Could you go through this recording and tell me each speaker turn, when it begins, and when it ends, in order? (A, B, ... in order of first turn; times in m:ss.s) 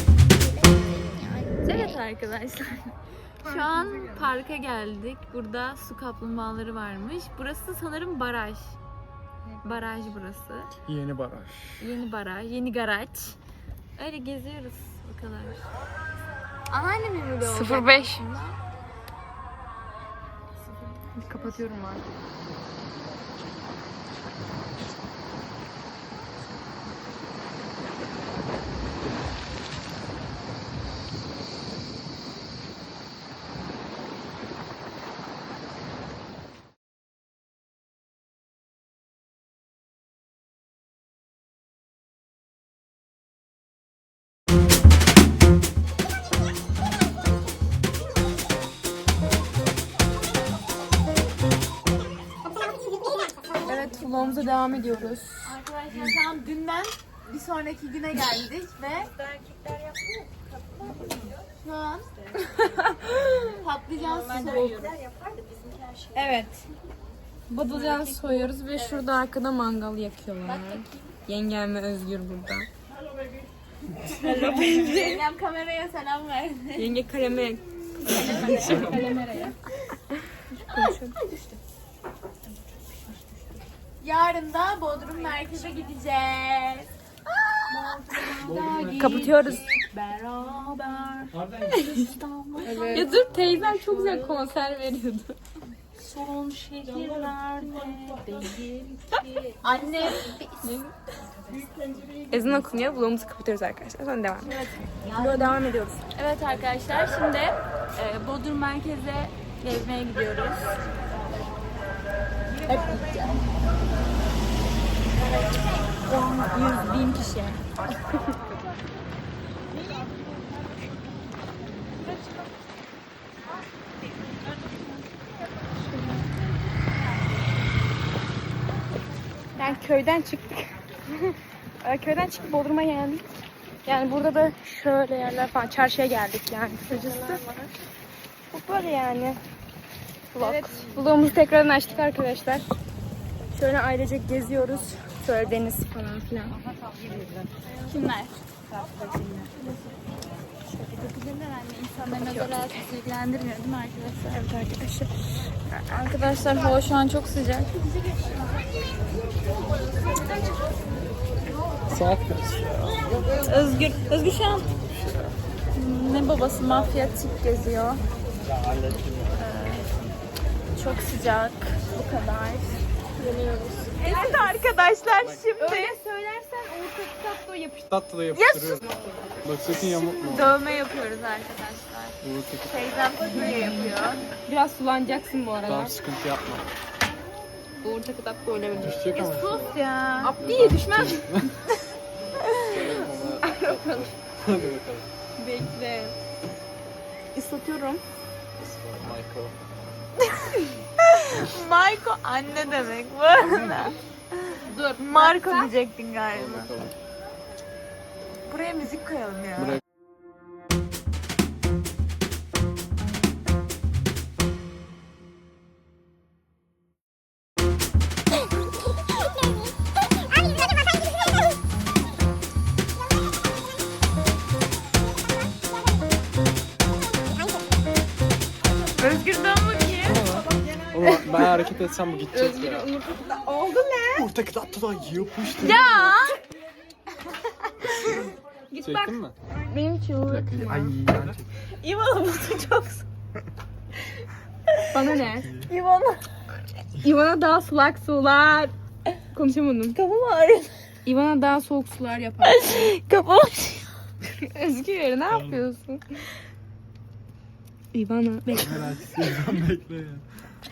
0:01.1-0:01.8 A
0:01.6-0:08.8 B
0:03.5-0:04.2 A
0:09.6-0:10.7 B
0:10.8-0:11.9 C
0:11.8-0:13.4 B
0:14.0-0:15.6 B
0:16.7-0:18.3 A
0:17.4-0:18.6 B
0:21.2-0:22.0 A
0:53.6-0:55.5 A
0:55.4-0:59.2 B
1:00.8-1:02.1 B
1:02.6-1:03.5 A
1:03.4-1:06.7 B
1:04.3-1:04.9 A
1:07.5-1:12.7 A
1:07.7-1:08.9 B
1:10.4-1:11.1 B
1:14.0-1:17.0 B
1:16.8-1:19.6 A
1:18.0-1:19.0 B
1:18.7-1:18.9 C
1:20.4-1:21.2 A
1:20.7-1:21.5 B
1:24.0-1:28.4 B
1:27.8-1:30.7 A
1:28.4-1:29.6 C
1:29.0-1:29.7 B
1:30.7-1:34.3 B
1:31.3-1:31.9 C
1:32.6-1:35.4 A
1:33.3-1:33.7 C
1:36.1-1:38.3 B
1:36.8-1:40.9 A
1:39.6-1:40.4 B
1:42.3-1:44.5 A
1:45.0-1:45.6 B
1:45.1-1:46.0 A
1:46.1-1:50.8 B
1:52.6-1:53.4 B
1:56.0-1:57.6 B
2:05.8-2:06.2 A
2:09.6-2:13.2 A
2:13.8-2:17.5 A
2:18.5-2:19.4 A
2:20.3-2:22.7 A
2:20.4-2:20.9 B
2:23.5-2:26.6 A
2:27.6-2:28.4 B
2:29.0-2:29.3 B
2:30.7-2:35.1 B
2:32.0-2:32.8 A
2:35.7-2:37.7 B
2:41.9-2:43.9 C
2:43.4-2:44.7 B
2:44.5-2:45.4 C
2:45.7-2:48.0 B
2:49.4-2:49.9 B
2:50.7-2:52.8 B
2:52.1-2:52.6 A
2:53.2-2:54.5 A
2:54.0-2:55.9 B
2:55.6-2:57.9 A
2:57.9-2:58.8 C
2:58.3-2:58.8 B
2:59.4-3:00.6 C
3:00.2-3:04.2 B
3:02.2-3:02.9 C
3:03.4-3:05.9 A
3:05.6-3:06.7 C
3:07.8-3:09.1 A
3:08.8-3:09.8 C
3:09.1-3:10.3 B
3:10.2-3:11.4 A
3:10.4-3:11.6 C
3:12.6-3:15.1 C
3:13.4-3:14.1 A
3:15.4-3:16.1 A
3:17.3-3:18.0 A
3:18.6-3:19.6 C
3:21.0-3:26.7 B
3:24.6-3:25.7 A
3:26.3-3:26.9 C
3:28.5-3:29.8 B
3:49.0-3:50.3 B
3:50.0-3:52.9 C
3:51.0-3:51.4 A
3:52.3-3:54.3 A
3:54.1-3:56.1 C
3:55.6-3:56.4 A
3:57.9-3:58.3 C
3:58.7-4:00.9 A
3:58.8-3:59.4 C
4:00.2-4:01.4 C
4:01.8-4:03.0 B
4:04.9-4:05.5 A
4:05.2-4:05.7 C
4:05.6-4:06.2 B
4:07.0-4:08.7 A
4:09.3-4:10.0 A
4:09.9-4:10.7 B
4:11.0-4:12.6 A
4:12.4-4:13.9 B
4:14.4-4:16.1 A
4:15.3-4:15.6 C
4:17.9-4:18.9 A
4:18.5-4:20.2 C